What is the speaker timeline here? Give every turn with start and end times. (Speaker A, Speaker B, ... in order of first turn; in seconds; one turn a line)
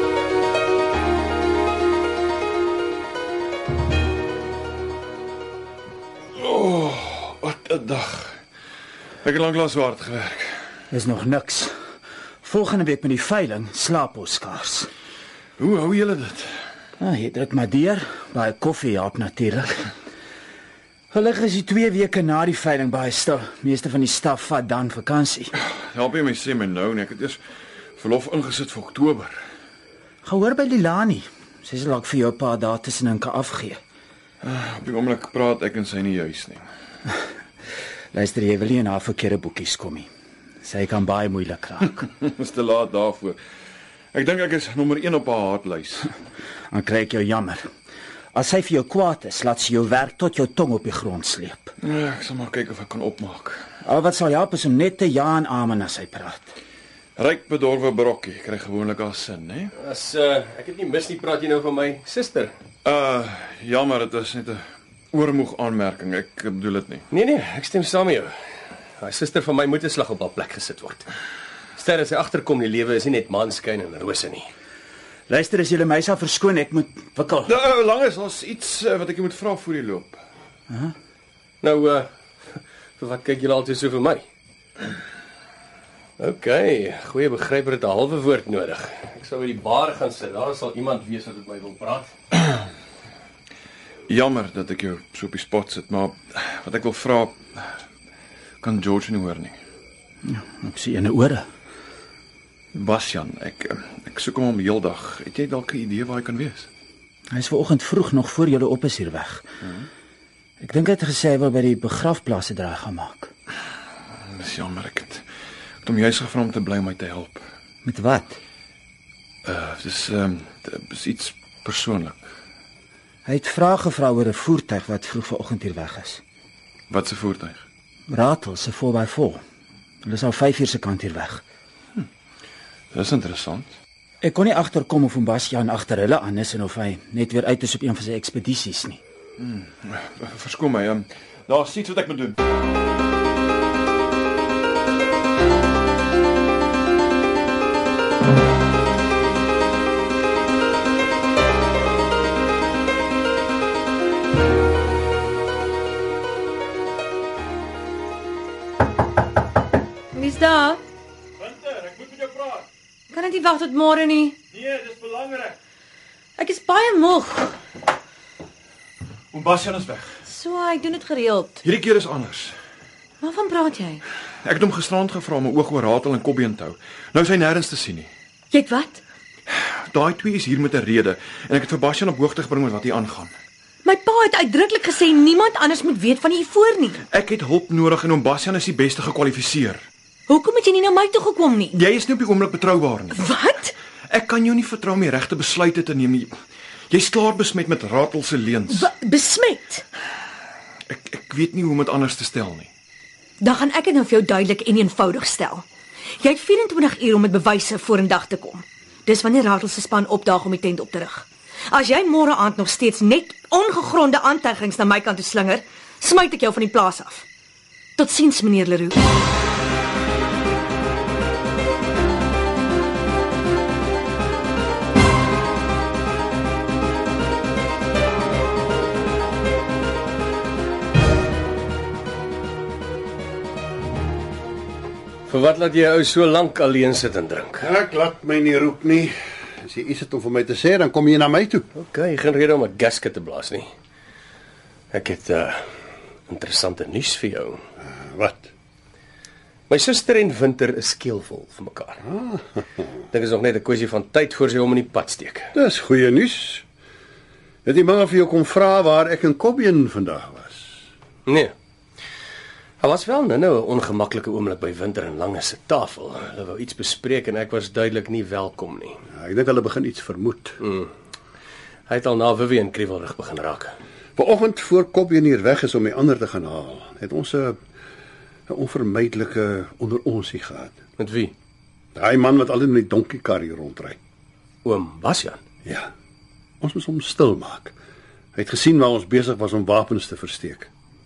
Speaker A: 6.3-8.4
Speaker A: 9.2-10.7
Speaker B: 10.9-11.7
Speaker B: 12.4-14.9
Speaker A: 15.6-16.5
Speaker B: 17.0-19.9
Speaker B: 21.1-25.5
Speaker A: 25.6-27.4
Speaker A: 28.0-29.4
Speaker B: 30.2-33.8
Speaker A: 34.4-36.6
Speaker B: 38.1-40.1
Speaker B: 40.6-42.0
Speaker A: 42.1-43.4
Speaker A: 44.1-46.1
Speaker B: 46.7-47.6
Speaker B: 48.3-51.7
Speaker A: 51.8-53.6
Speaker B: 53.8-56.5
Speaker A: 57.1-59.7
Speaker C: 59.8-62.5
Speaker A: 62.8-64.6
Speaker A: 65.1-67.0
Speaker C: 67.1-68.3
Speaker C: 69.0-71.0
Speaker C: 71.8-74.5
Speaker B: 75.3-77.5
Speaker A: 77.5-80.2
Speaker C: 81.6-82.1
Speaker C: 83.0-84.2
Speaker C: 86.2-92.1
Speaker A: 94.1-97.7
Speaker A: 98.6-99.6
Speaker B: 100.2-101.5
Speaker A: 102.7-106.7
Speaker B: 107.3-109.4
Speaker B: 110.6-113.3
Speaker A: 114.3-115.2
Speaker A: 115.8-117.4
Speaker B: 117.8-118.4
Speaker A: 119.4-122.2
Speaker B: 123.2-126.2
Speaker A: 126.9-127.6
Speaker B: 128.1-129.4
Speaker B: 130.0-131.4
Speaker A: 132.9-133.7
Speaker B: 134.2-139.0
Speaker A: 139.4-142.3
Speaker D: 160.1-160.8
Speaker A: 161.4-162.7
Speaker D: 163.1-164.3
Speaker A: 164.5-165.6
Speaker D: 166.4-167.6
Speaker A: 169.3-170.1
Speaker D: 170.2-171.6
Speaker A: 171.6-172.5
Speaker D: 173.2-174.0
Speaker A: 174.4-178.1
Speaker D: 178.5-179.0
Speaker A: 179.5-183.3
Speaker D: 183.8-187.0
Speaker A: 187.1-189.8
Speaker D: 190.3-191.8
Speaker A: 191.7-193.2
Speaker D: 193.1-193.7
Speaker A: 194.1-196.3
Speaker A: 196.9-198.9
Speaker D: 198.7-199.8
Speaker A: 200.9-202.7
Speaker D: 203.4-205.6
Speaker D: 206.2-217.2
Speaker D: 218.0-218.9
Speaker C: 235.3-237.7
Speaker E: 237.6-241.7
Speaker C: 241.8-243.7
Speaker C: 244.9-245.6
Speaker C: 246.3-247.6
Speaker E: 247.8-248.5
Speaker C: 249.7-252.0
Speaker E: 252.1-252.4
Speaker C: 253.1-255.5
Speaker E: 255.5-256.6
Speaker E: 257.6-260.7
Speaker C: 261.2-261.5
Speaker C: 262.8-269.0
Speaker E: 269.1-270.6
Speaker C: 270.6-270.9
Speaker C: 271.9-273.7
Speaker E: 274.1-277.6
Speaker E: 278.5-280.7
Speaker C: 281.0-281.3
Speaker E: 281.9-284.0
Speaker C: 284.6-285.4
Speaker E: 285.6-285.9
Speaker E: 286.6-287.7
Speaker E: 288.4-290.7